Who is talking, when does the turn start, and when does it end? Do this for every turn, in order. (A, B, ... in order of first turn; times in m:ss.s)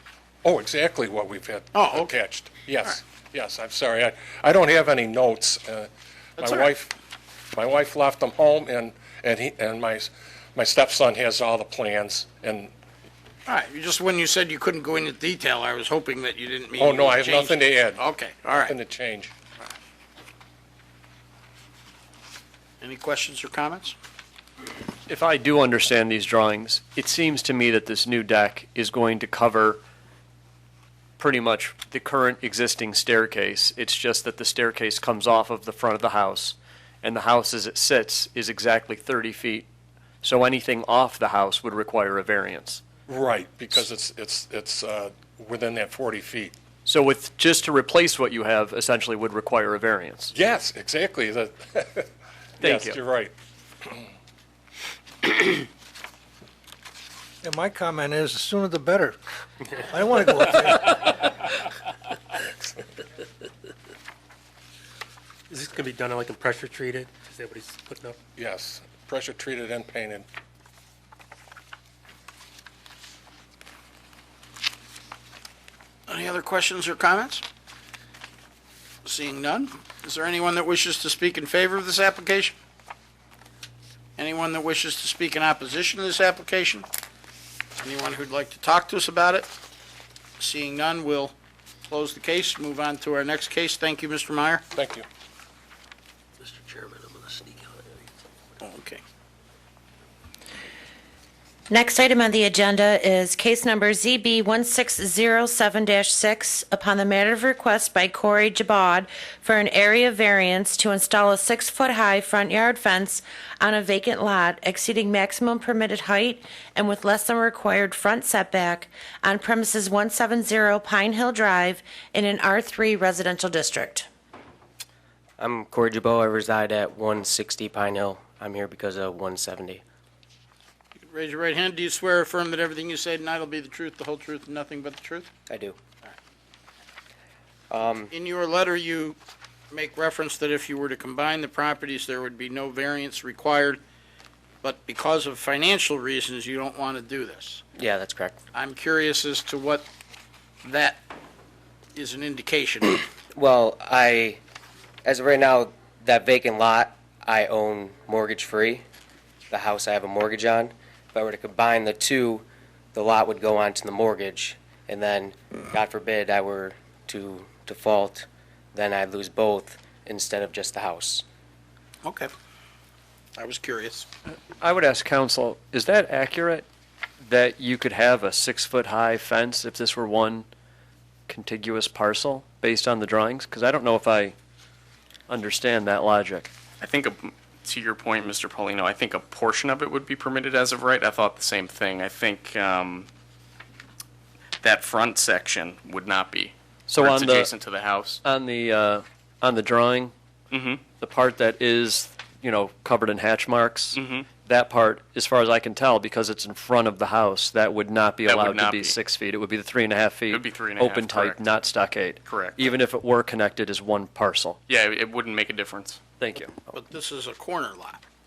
0:00.4-0:06.9 A
0:01.7-0:02.1 B
0:06.4-0:06.7 B
0:07.5-0:12.7 A
0:13.4-0:18.7 B
0:16.8-0:18.0 A
0:18.6-0:19.3 A
0:22.8-0:24.0 B
0:25.1-0:29.8 C
0:31.2-0:39.7 C
0:40.2-0:42.8 C
0:43.1-0:46.5 A
0:46.8-0:50.3 C
0:50.3-0:52.1 A
0:52.6-0:54.1 A
0:52.6-0:53.0 C
0:57.4-0:59.2 D
0:59.8-1:01.1 D
1:05.5-1:08.2 E
1:08.4-1:10.2 A
1:16.1-1:17.4 B
1:19.0-1:22.6 B
1:24.2-1:26.8 B
1:27.8-1:29.5 B
1:30.4-1:31.3 B
1:31.9-1:34.6 B
1:34.7-1:35.0 A
1:36.4-1:37.8 E
1:38.6-1:39.0 B
1:41.7-2:04.1 F
2:05.4-2:09.8 G
2:11.0-2:15.3 B
2:15.5-2:15.8 G
2:17.7-2:18.1 G
2:18.1-2:19.2 B
2:19.7-2:23.8 B
2:24.6-2:27.6 B
2:27.8-2:28.4 G
2:28.5-2:29.9 B
2:30.6-2:31.0 B
2:31.9-2:33.0 B
2:33.3-2:34.4 G
2:35.0-2:38.8 G
2:39.5-2:51.2 G
2:52.0-2:52.3 B
2:53.4-2:54.1 B
2:54.6-2:56.6 C
2:57.2-3:00.5 C
3:01.3-3:04.3 C
3:05.3-3:06.5 C
3:06.8-3:13.1 H
3:14.6-3:18.2 H
3:16.9-3:17.5 C
3:18.2-3:20.1 C
3:20.5-3:20.8 H
3:21.0-3:34.6 C
3:23.9-3:24.3 H
3:28.2-3:29.0 H
3:30.3-3:31.4 H
3:32.2-3:32.6 H
3:34.7-3:36.0 H
3:36.2-3:36.6 C
3:36.7-3:38.0 B